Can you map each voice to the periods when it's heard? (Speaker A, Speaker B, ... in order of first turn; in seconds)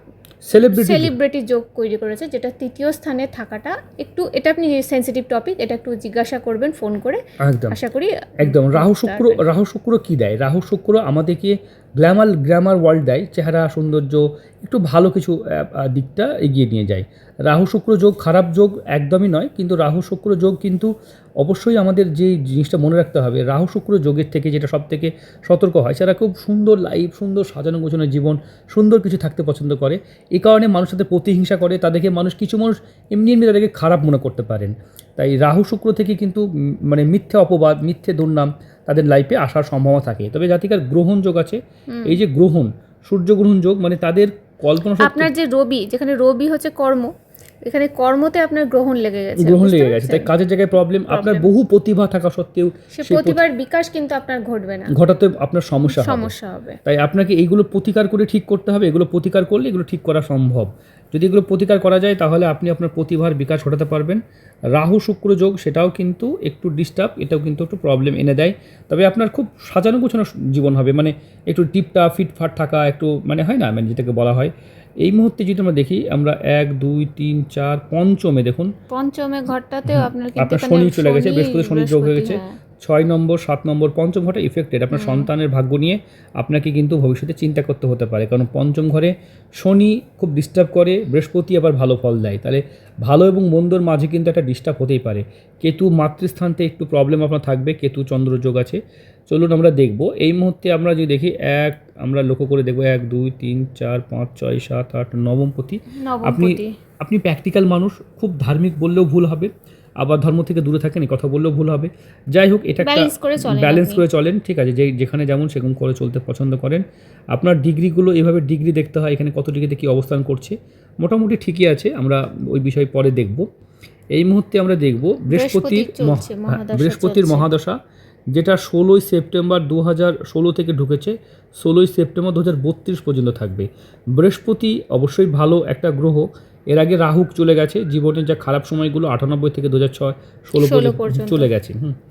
Speaker A: 0.5-1.1, 7.4-7.8, 8.4-45.3, 49.4-53.4, 54.9-56.3, 56.8-64.2, 64.7-78.7, 79.8-116.8, 117.3-123.5, 124.1-127.8, 128.3-142.0
Speaker B: 0.7-9.4, 41.9-42.1, 45.0-47.1, 47.6-50.3, 51.1-51.5, 52.9-54.9, 55.9-56.8, 78.9-82.5, 84.9-85.3, 106.0-106.7, 112.8-114.0, 125.3-127.5, 140.5-141.5